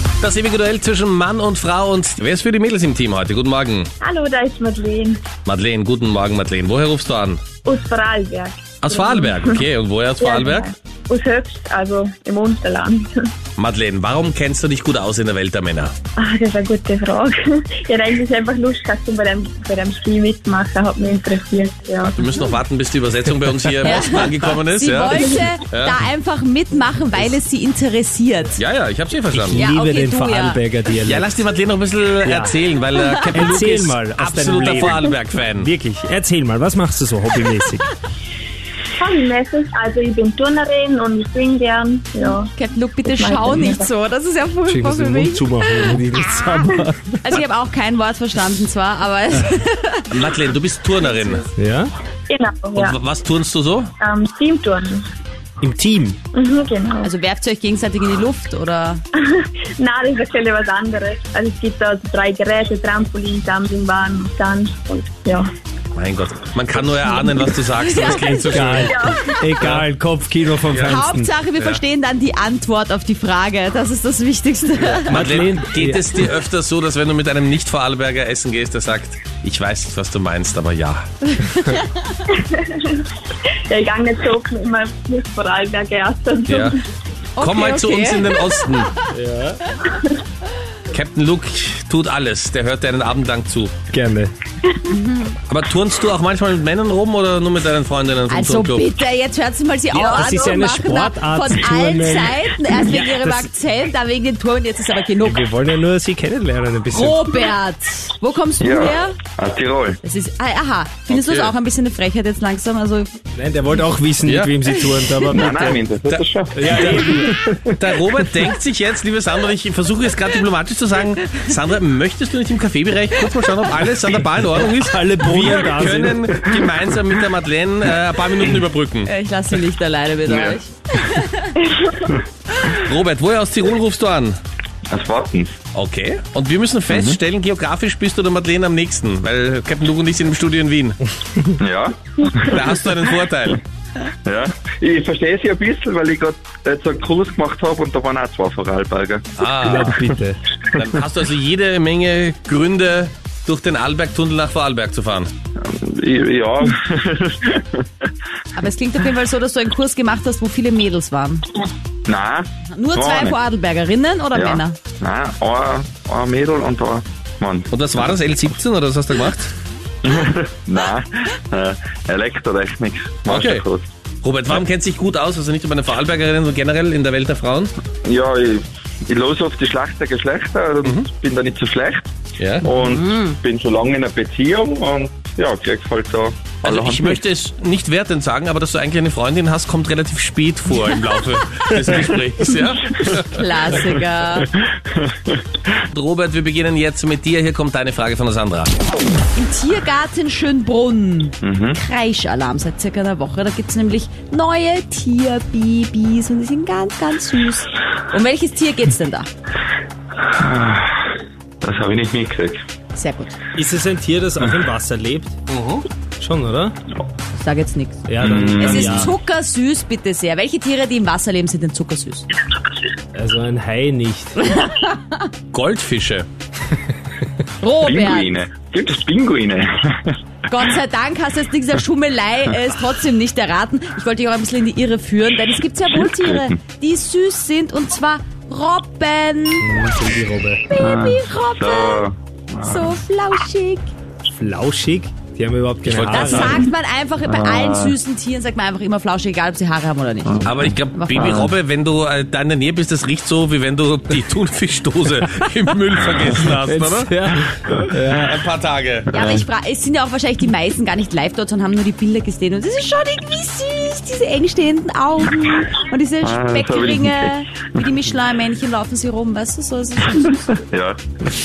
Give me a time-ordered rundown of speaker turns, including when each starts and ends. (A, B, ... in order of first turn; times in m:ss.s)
0:00.2-0:03.9 A
0:04.0-0:05.3 B
0:05.4-0:07.4 A
0:07.6-0:09.6 B
0:08.8-0:10.7 A
0:10.2-0:13.3 B
0:13.6-0:15.9 A
0:16.2-0:22.2 B
0:22.0-0:26.0 A
0:23.8-0:28.6 C
0:28.6-0:29.6 A
0:29.3-0:31.4 D
0:29.6-0:30.6 C
0:31.0-0:35.7 A
0:32.2-0:32.6 D
0:33.3-0:37.9 D
0:39.0-0:42.5 B
0:42.5-0:46.0 C
0:43.1-0:43.9 B
0:44.7-0:47.2 D
0:47.2-0:50.1 C
0:50.1-0:51.5 A
0:51.6-0:51.9 D
0:52.3-0:53.0 B
0:52.8-0:53.9 A
0:54.0-0:55.1 B
0:55.6-0:56.2 D
0:56.3-0:57.1 B
0:57.0-0:59.0 C
0:59.2-1:05.5 B
1:05.9-1:09.0 A
1:06.9-1:08.8 C
1:08.5-1:11.3 D
1:08.8-1:09.2 B
1:09.6-1:09.8 A
1:10.7-1:11.0 A
1:10.8-1:15.2 C
1:14.9-1:16.3 D
1:15.1-1:21.0 A
1:21.3-1:21.9 C
1:22.3-1:23.0 B
1:23.7-1:26.8 B
1:26.5-1:26.8 A
1:27.4-1:28.5 C
1:27.4-1:28.9 A
1:29.1-1:29.6 D
1:30.9-1:33.7 A
1:33.9-1:34.3 D
1:34.9-1:35.4 C
1:35.5-1:38.8 A
1:38.3-1:45.4 C
1:39.9-1:43.5 D
1:45.2-1:47.3 D
1:46.9-1:49.2 C
1:48.6-1:50.0 E
1:50.0-1:53.2 C
1:51.1-1:51.6 A
1:53.3-1:57.7 D
1:54.2-1:54.5 A
1:55.3-1:57.3 E
1:57.8-2:09.1 A
2:04.8-2:06.5 D
2:09.1-2:11.6 C
2:10.3-2:10.6 E
2:12.6-2:14.4 A
2:14.9-2:15.6 E
2:15.7-2:21.0 A
2:16.9-2:17.2 E
2:21.6-2:22.7 E
2:22.5-2:23.6 A
2:24.3-2:30.2 E
2:29.4-2:30.0 A
2:29.6-2:30.4 D
2:30.7-2:35.3 A
2:35.6-2:37.8 E
2:38.6-2:41.4 C
2:42.1-2:43.4 E
2:42.7-2:44.8 C
2:44.3-2:48.1 E
2:47.7-2:49.5 A
2:50.0-2:53.9 E
2:53.3-2:53.6 A
2:54.2-2:57.7 A
2:58.0-3:07.2 E
3:02.4-3:02.7 A
3:02.8-3:03.4 C
3:06.6-3:13.5 A
3:13.3-3:14.5 C
3:14.4-3:15.6 E
3:15.9-3:18.7 A
3:19.4-3:29.3 C
3:21.4-3:21.8 E
3:30.2-3:32.6 E
3:32.9-3:33.4 C
3:33.5-3:35.4 D
3:35.5-3:35.9 A
3:36.2-3:36.8 D
3:37.3-3:42.3 C
3:38.0-3:39.2 D
3:38.2-3:39.1 E
3:43.1-3:44.4 D
3:44.4-3:45.3 C
3:45.5-3:46.3 A
3:47.6-3:48.4 C
3:47.8-3:50.2 E
3:50.5-3:59.7 C
3:55.9-3:56.6 E
3:59.6-4:00.6 D
4:00.6-4:02.1 C
4:00.7-4:03.0 E
4:02.6-4:03.9 C
4:04.3-4:06.7 D
4:05.8-4:06.7 A
4:06.1-4:11.4 C
4:07.3-4:08.0 E
4:10.2-4:11.6 E
4:10.4-4:17.1 A
4:16.6-4:18.4 D
4:18.0-4:19.2 A
4:19.1-4:30.6 C
4:26.2-4:27.4 E
4:30.6-4:31.2 E